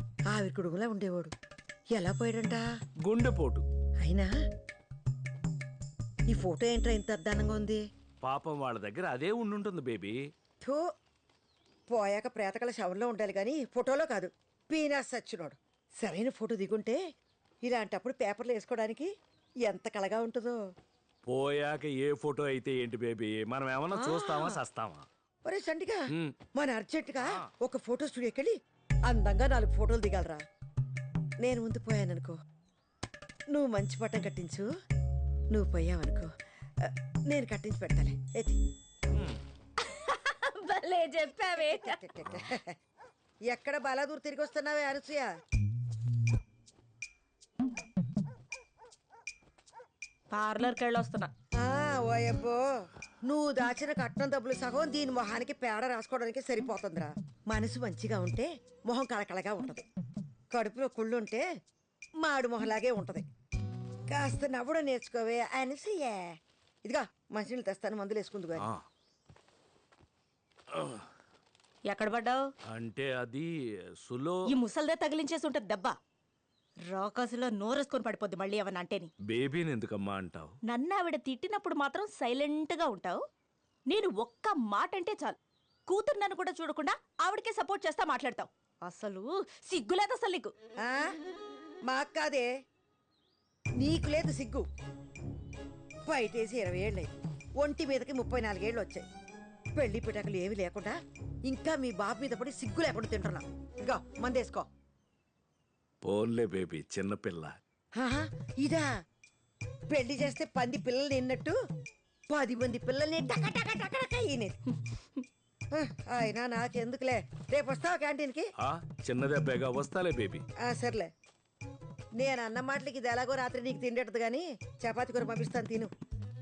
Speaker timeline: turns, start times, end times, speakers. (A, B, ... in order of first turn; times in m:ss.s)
0:00.3-0:01.3 A
0:01.9-0:02.6 A
0:03.0-0:03.6 B
0:04.0-0:04.3 A
0:06.3-0:07.8 A
0:08.2-0:10.2 B
0:11.9-0:17.0 A
0:17.6-0:19.1 A
0:19.7-0:20.6 A
0:21.3-0:25.0 B
0:24.0-0:24.6 A
0:25.5-0:26.0 A
0:26.6-0:28.6 A
0:29.1-0:30.4 A
0:31.4-0:32.4 A
0:33.5-0:34.7 A
0:35.5-0:36.3 A
0:36.8-0:38.6 A
0:40.3-0:42.0 C
0:41.7-0:42.6 A
0:43.5-0:45.3 A
0:50.3-0:51.3 C
0:51.6-0:52.7 A
0:53.3-0:59.9 A
1:00.5-1:01.5 A
1:02.2-1:03.3 A
1:04.1-1:06.3 A
1:06.8-1:08.7 A
1:10.7-1:11.1 B
1:11.9-1:12.4 C
1:12.7-1:13.5 B
1:14.0-1:14.5 B
1:14.5-1:16.0 C
1:16.9-1:19.1 C
1:19.3-1:20.5 B
1:20.7-1:23.2 C
1:23.9-1:30.5 C
1:31.9-1:32.5 A
1:33.8-1:34.7 A
1:36.1-1:39.0 A
1:39.8-1:44.7 A
1:46.0-1:47.6 B
1:48.0-1:48.9 A
1:49.9-1:51.6 A
1:52.3-1:54.6 A
1:55.8-1:58.5 A
1:58.6-2:00.4 B
2:00.7-2:01.1 A
2:02.2-2:05.9 A